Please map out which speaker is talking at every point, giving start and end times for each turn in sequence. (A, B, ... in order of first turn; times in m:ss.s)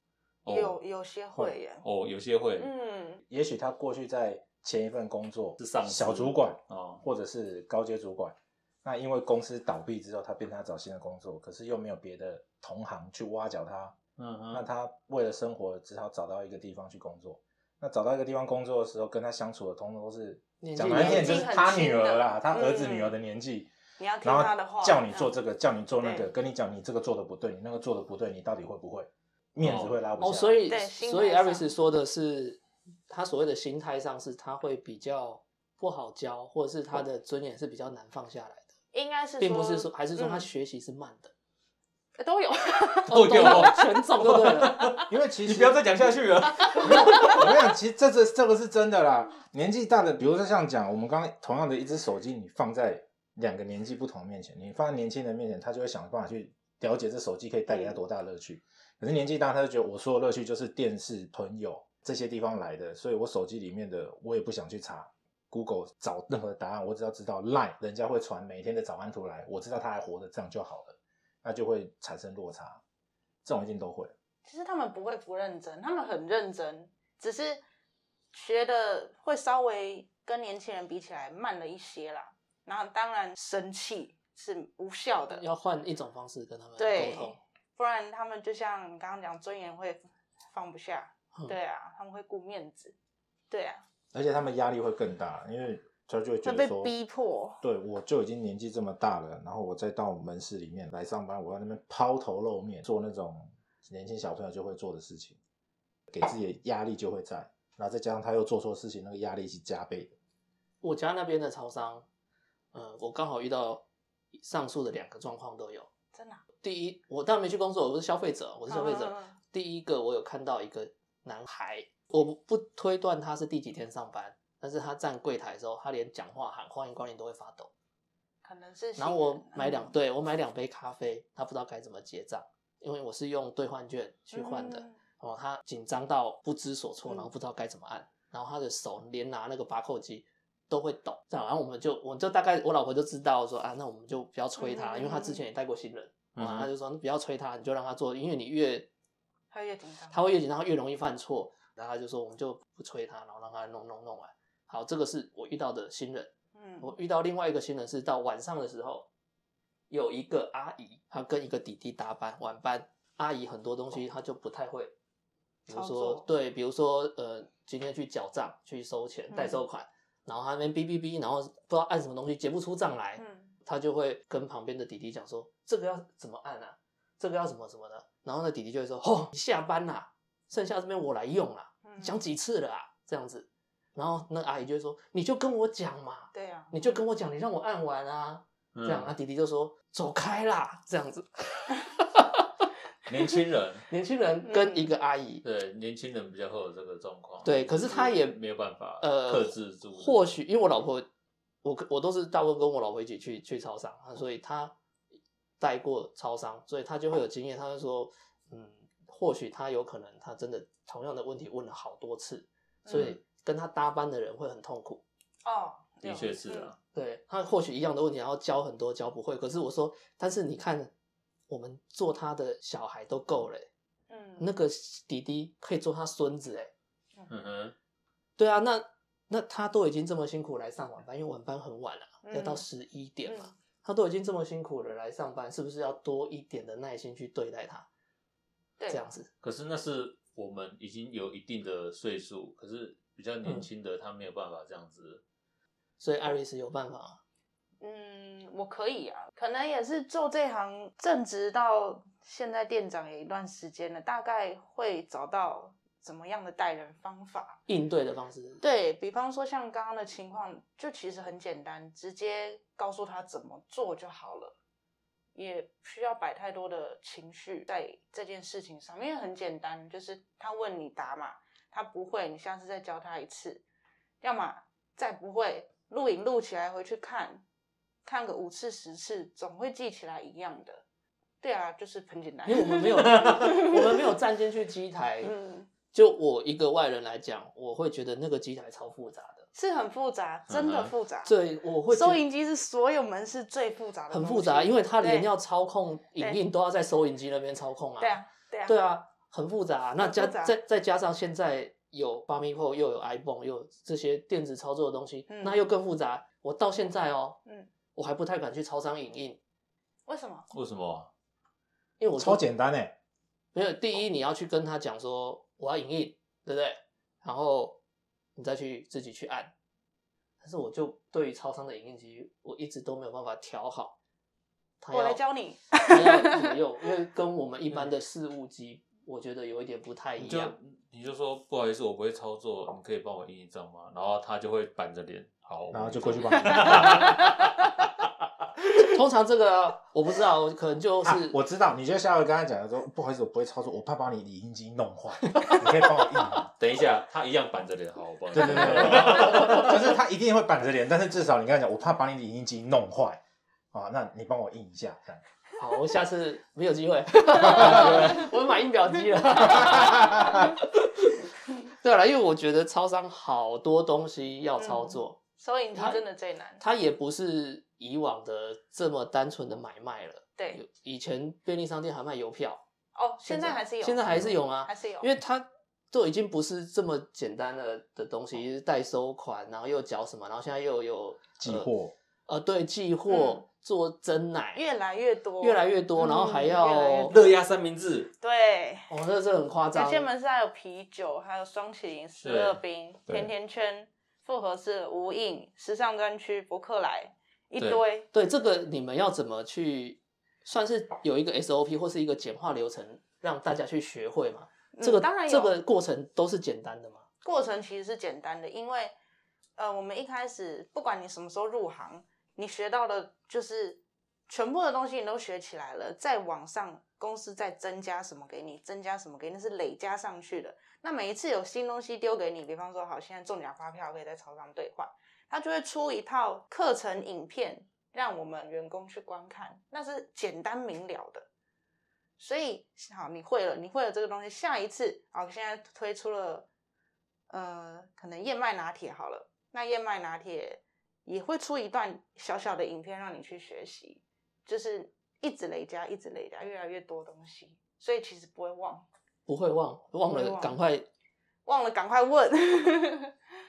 0:00.4-0:00.8 A
0:00.5-0:01.8 B
0:01.8-0:02.7 A
0:02.6-0:03.2 B
0:03.3-0:14.0 C
0:05.6-0:07.0 A
0:14.2-0:14.6 A
0:14.5-0:23.7 C
0:20.6-0:21.5 D
0:20.9-0:23.1 B
0:24.0-0:25.3 B
0:24.2-0:30.6 C
0:26.0-0:26.3 B
0:29.6-0:30.0 A
0:30.2-0:38.7 D
0:30.7-0:31.7 B
0:38.9-0:40.5 B
0:39.4-0:41.3 D
0:42.2-0:43.8 B
0:43.1-0:44.9 D
0:43.1-0:47.4 A
0:45.1-0:45.8 C
0:46.8-0:47.3 B
0:46.8-1:12.8 C
0:57.7-0:58.0 B
1:13.4-1:14.1 C
1:14.4-1:17.6 B
1:18.3-1:25.4 B
1:25.3-1:27.4 D
1:26.8-1:33.0 B
1:33.5-1:33.8 B
1:34.1-1:36.9 C
1:36.4-1:37.6 B
1:37.6-1:45.4 C
1:46.1-1:50.1 C
1:50.8-1:52.0 D
1:52.7-1:55.9 D
1:56.1-1:56.4 B
1:56.6-2:07.7 D
1:58.7-1:59.4 B
2:08.4-2:09.9 B
2:09.0-2:28.9 D
2:14.3-2:15.0 B
2:24.6-2:25.4 B
2:26.4-2:26.7 A
2:29.5-2:30.2 B
2:30.1-2:39.1 D
2:36.5-2:36.9 B
2:39.9-2:44.9 D
2:45.7-3:12.4 D
2:45.7-2:46.2 B
2:49.3-2:49.6 B
2:53.2-2:53.5 B
3:01.8-3:02.2 B
3:06.3-3:07.0 B
3:08.7-3:09.1 A
3:13.1-3:13.9 A
3:13.9-3:15.4 D
3:14.5-3:14.9 B
3:15.4-3:20.3 A
3:17.4-3:18.4 D
3:19.0-3:21.1 D
3:21.6-3:24.7 D
3:25.6-3:35.0 D
3:32.9-3:33.1 B
3:35.4-3:36.7 B
3:36.0-3:36.8 A
3:36.9-3:40.9 D
3:41.5-3:43.7 D
3:44.1-3:44.5 B
3:44.4-3:46.7 D
3:47.3-3:47.8 A
3:48.4-3:57.9 D
3:52.2-3:52.6 B
3:53.2-3:53.5 B
3:58.9-3:59.3 D
3:59.4-4:05.2 A
4:06.0-4:07.2 D
4:07.8-4:17.6 B
4:17.7-4:18.6 D
4:18.6-4:24.6 B
4:25.4-4:33.6 B
4:34.2-4:37.4 B
4:38.0-4:40.8 B
4:41.4-4:44.1 B
4:42.4-4:45.3 D
4:45.2-4:45.7 B
4:45.9-4:49.5 D
4:49.5-4:51.3 B
4:50.5-4:50.9 A
4:51.2-4:52.2 D
4:51.9-4:55.3 B
4:54.1-5:07.4 D
4:58.0-4:58.8 B
5:00.0-5:00.6 B
5:05.3-5:05.6 B
5:07.9-5:09.4 D
5:10.1-5:10.5 B
5:10.5-5:11.1 A
5:12.0-5:12.4 D
5:12.2-5:12.9 C
5:13.5-5:17.8 D
5:18.4-5:19.5 D
5:20.4-5:24.0 D
5:24.8-5:25.2 D
5:24.9-5:26.6 B
5:25.8-5:30.5 D
5:30.2-5:37.6 A
5:35.7-5:37.2 C
5:38.8-5:41.4 D
5:41.0-5:46.5 C
5:45.4-5:45.6 D
5:46.6-5:49.7 A
5:48.3-5:53.2 C
5:53.7-5:55.2 C
5:55.6-6:05.2 D
5:57.6-5:57.9 C
5:59.9-6:00.2 C
6:04.6-6:06.6 B
6:05.7-6:06.0 D
6:06.6-6:12.6 D
6:10.4-6:10.6 B
6:12.9-6:15.1 B
6:13.3-6:21.7 D
6:21.4-6:21.9 C
6:22.3-6:24.6 D
6:23.1-6:23.4 B
6:24.6-6:27.4 B
6:25.4-6:27.2 D
6:27.1-6:28.1 A
6:28.2-6:28.9 B
6:28.9-6:30.1 D
6:29.7-6:38.1 B
6:32.2-6:32.6 A
6:38.1-6:47.1 D
6:44.7-6:45.6 B
6:47.2-6:48.9 B
6:49.6-7:11.3 B
7:12.2-7:16.5 B
7:17.3-7:28.9 B
7:29.3-7:30.9 D
7:30.1-7:30.6 B
7:31.4-7:33.1 B